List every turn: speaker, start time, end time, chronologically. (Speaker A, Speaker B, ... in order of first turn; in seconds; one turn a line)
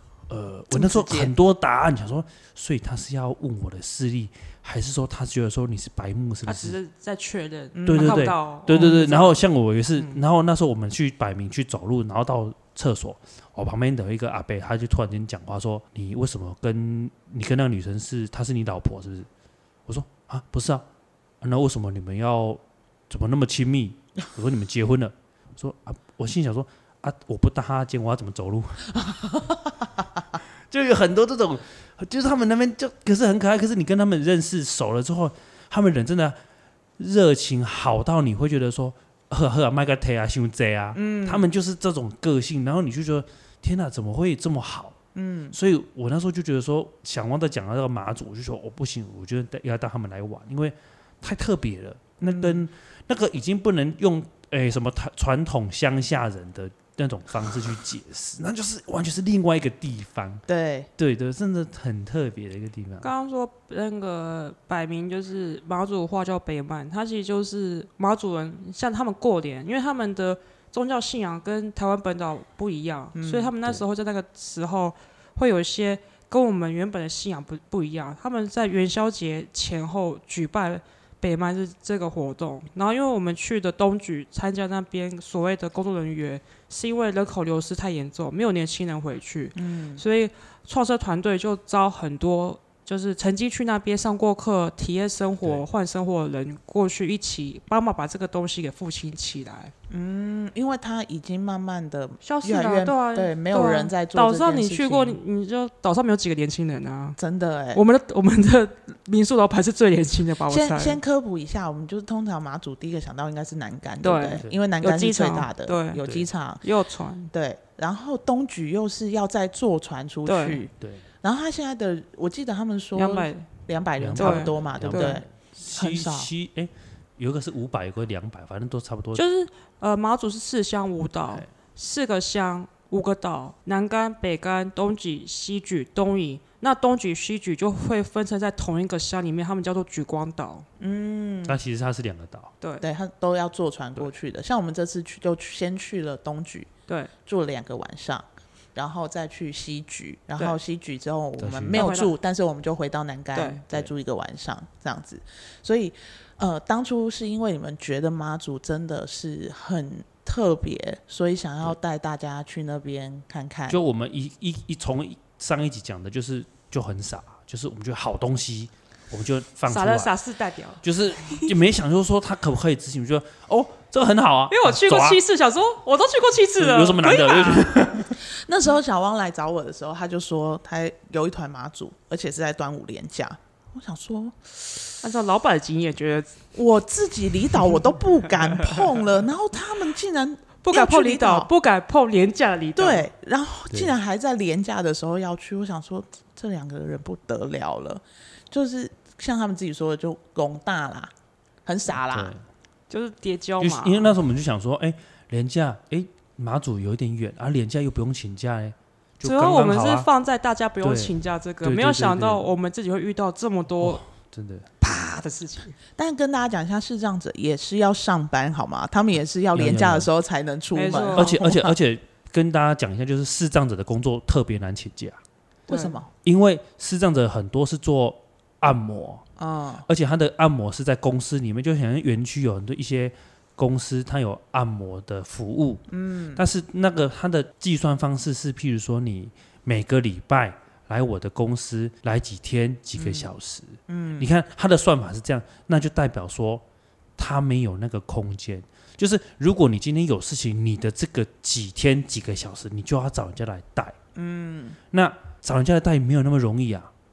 Speaker A: 0.3-6.8
Speaker B: 0.7-1.3
Speaker C: 6.5-9.4
Speaker B: 7.8-8.9
Speaker A: 7.9-19.3
Speaker C: 9.9-10.2
Speaker A: 19.9-20.9
Speaker A: 21.4-28.9
Speaker A: 30.7-36.4
Speaker A: 37.0-45.0
Speaker B: 40.9-41.5
Speaker B: 45.1-45.5
Speaker A: 45.5-60.4
Speaker B: 52.2-52.6
Speaker B: 60.5-60.9
Speaker A: 61.0-63.1
Speaker C: 63.0-99.7
Speaker B: 73.1-73.5
Speaker B: 89.6-90.0
Speaker B: 99.9-105.2
Speaker C: 102.2-107.2
Speaker B: 107.2-107.8
Speaker C: 107.7-111.0
Speaker B: 110.5-116.6
Speaker C: 114.0-116.1
Speaker C: 116.6-117.3
Speaker B: 117.3-120.7
Speaker C: 120.2-120.6
Speaker A: 120.8-121.0
Speaker B: 121.2-126.3
Speaker C: 122.9-123.5
Speaker A: 124.0-129.2
Speaker C: 124.2-125.2
Speaker C: 129.1-140.7
Speaker B: 140.8-141.6
Speaker A: 141.4-142.5
Speaker B: 142.8-146.7
Speaker B: 147.2-163.8
Speaker A: 151.4-151.9
Speaker C: 151.8-152.1
Speaker C: 153.3-153.6
Speaker A: 163.7-170.1
Speaker C: 169.7-171.5
Speaker A: 170.8-175.2
Speaker C: 174.5-177.7
Speaker A: 176.6-178.1
Speaker B: 178.2-184.6
Speaker C: 185.0-186.4
Speaker B: 186.5-191.5
Speaker C: 188.4-188.9
Speaker C: 190.6-193.1
Speaker B: 192.8-201.1
Speaker B: 201.6-202.3
Speaker A: 202.1-202.4
Speaker C: 202.9-204.1
Speaker A: 203.6-210.1
Speaker C: 209.2-214.0
Speaker A: 210.8-212.5
Speaker A: 213.8-214.7
Speaker C: 214.8-215.8
Speaker B: 216.0-221.7
Speaker A: 219.5-220.1
Speaker C: 220.8-221.3
Speaker A: 221.0-225.2
Speaker C: 225.7-226.0
Speaker B: 225.7-226.1
Speaker A: 226.2-229.2
Speaker B: 229.4-229.8
Speaker A: 229.8-246.6
Speaker B: 235.9-236.4
Speaker B: 243.0-243.3
Speaker B: 243.9-244.3
Speaker A: 247.2-254.0
Speaker B: 254.1-254.8
Speaker A: 254.9-256.9